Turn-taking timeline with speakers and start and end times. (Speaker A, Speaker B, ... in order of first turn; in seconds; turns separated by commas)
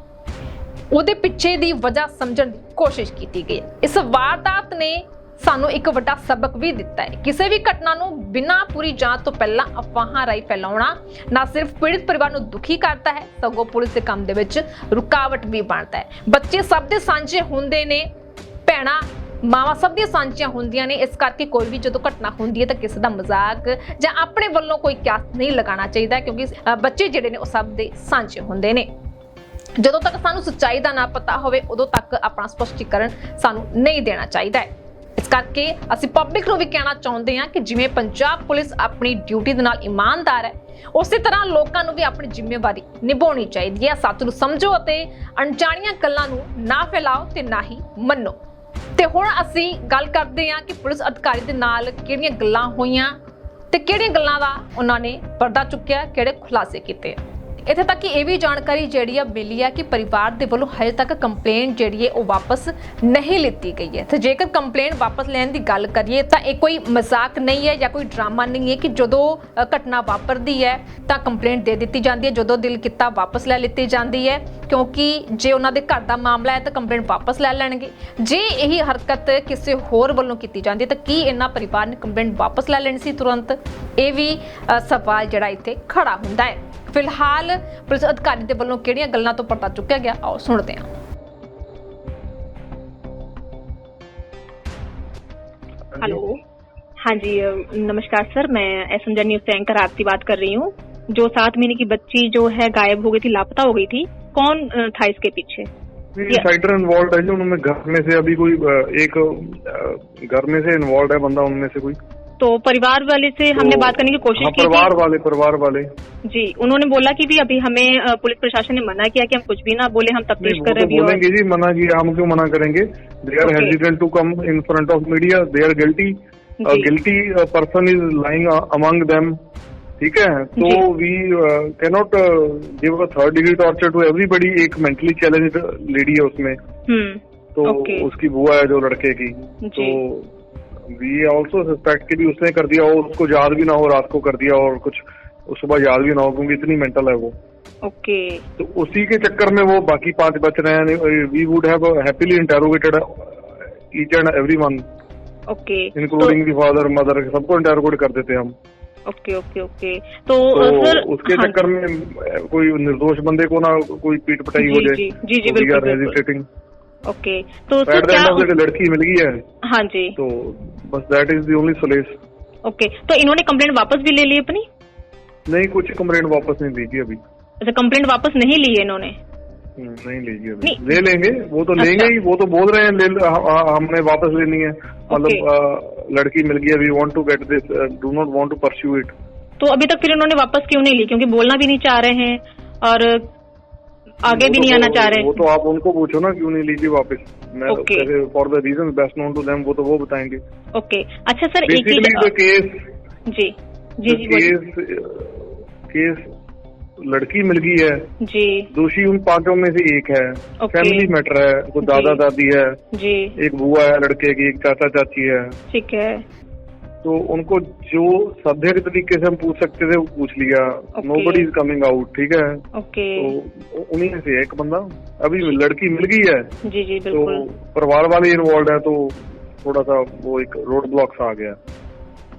Speaker A: 0.9-18.1, Speaker A: 18.6-28.9, Speaker A: 29.8-48.4, Speaker A: 49.0-53.1, Speaker A: 53.7-90.9, Speaker B: 95.9-96.2, Speaker C: 96.0-96.4, Speaker C: 97.0-105.7, Speaker B: 106.1-112.0, Speaker C: 112.4-114.9, Speaker B: 113.5-115.9, Speaker C: 116.3-121.2, Speaker B: 120.4-129.3, Speaker C: 123.4-123.7, Speaker C: 126.6-126.9, Speaker B: 130.0-136.6, Speaker C: 130.6-130.8, Speaker C: 136.9-138.1, Speaker B: 137.5-140.3, Speaker C: 139.7-140.0, Speaker B: 140.9-147.3, Speaker C: 147.8-148.4, Speaker B: 148.6-154.8, Speaker C: 155.5-156.3, Speaker B: 155.9-158.5, Speaker C: 159.1-161.6, Speaker B: 160.5-166.4, Speaker C: 164.6-166.2, Speaker C: 167.1-168.5, Speaker B: 167.8-169.4, Speaker C: 169.7-170.2, Speaker B: 170.2-172.2, Speaker C: 172.7-174.7, Speaker B: 175.5-177.2, Speaker C: 177.6-179.2, Speaker B: 179.8-189.1, Speaker C: 180.6-180.9, Speaker C: 181.8-182.1, Speaker C: 185.1-185.4, Speaker C: 189.6-193.3, Speaker C: 194.2-195.4, Speaker B: 194.2-200.4, Speaker C: 197.7-198.1, Speaker C: 200.7-202.3, Speaker B: 201.7-202.9, Speaker C: 203.3-204.5, Speaker B: 204.1-206.3, Speaker B: 207.0-208.1, Speaker C: 208.2-208.7, Speaker B: 208.7-212.8, Speaker C: 210.7-211.1, Speaker C: 211.8-212.2, Speaker C: 212.9-213.3, Speaker B: 213.3-215.6, Speaker C: 215.7-216.2, Speaker B: 217.0-226.5, Speaker C: 221.0-221.5, Speaker C: 222.7-223.3, Speaker C: 226.6-227.4, Speaker B: 227.1-231.6